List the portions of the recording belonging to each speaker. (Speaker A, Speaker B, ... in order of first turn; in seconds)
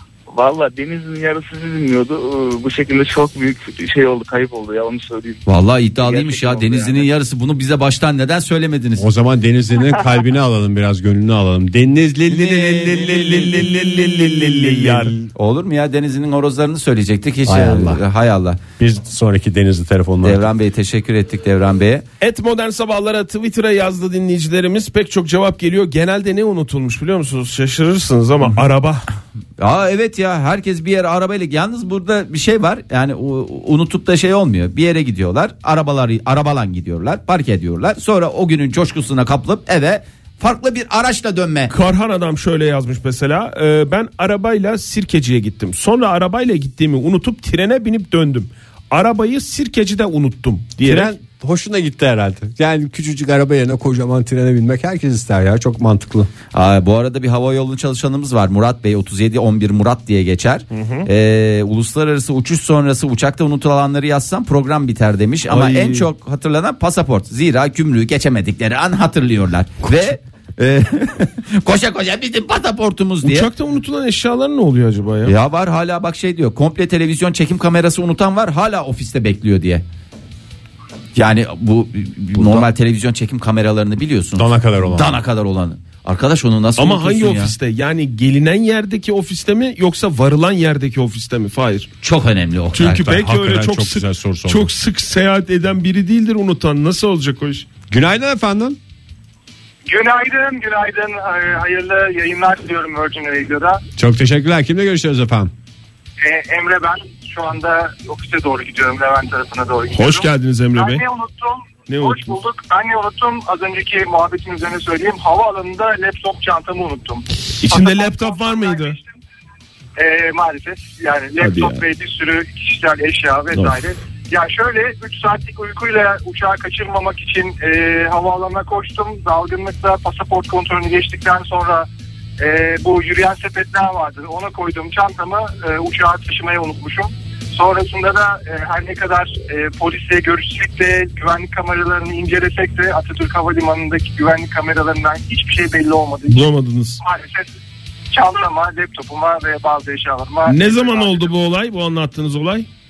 Speaker A: 0.3-5.4, 6.0-7.1
Speaker B: 5.5-9.1, 12.3-13.0, 15.3-18.6, 20.2-22.1, 29.6-41.7, 56.5-73.5, 75.2-79.8, 81.1-87.5, 92.0-93.1
Speaker C: 9.0-15.2, 17.4-18.0, 18.8-20.5, 50.8-56.3, 82.4-82.7, 84.4-85.1, 92.9-94.7, 97.9-98.8, 104.0-105.5
Speaker D: 12.7-15.2, 22.2-29.1, 41.7-51.1, 60.7-61.1, 65.5-66.1, 73.2-75.3, 86.8-91.9, 92.7-97.7, 109.9-111.0, 111.9-112.3, 117.6-119.0, 121.4-121.8, 146.3-147.0, 150.4-152.7
Speaker E: 99.9-103.8, 106.2-119.0, 120.0-131.9, 132.4-146.5, 147.0-147.5, 148.1-151.3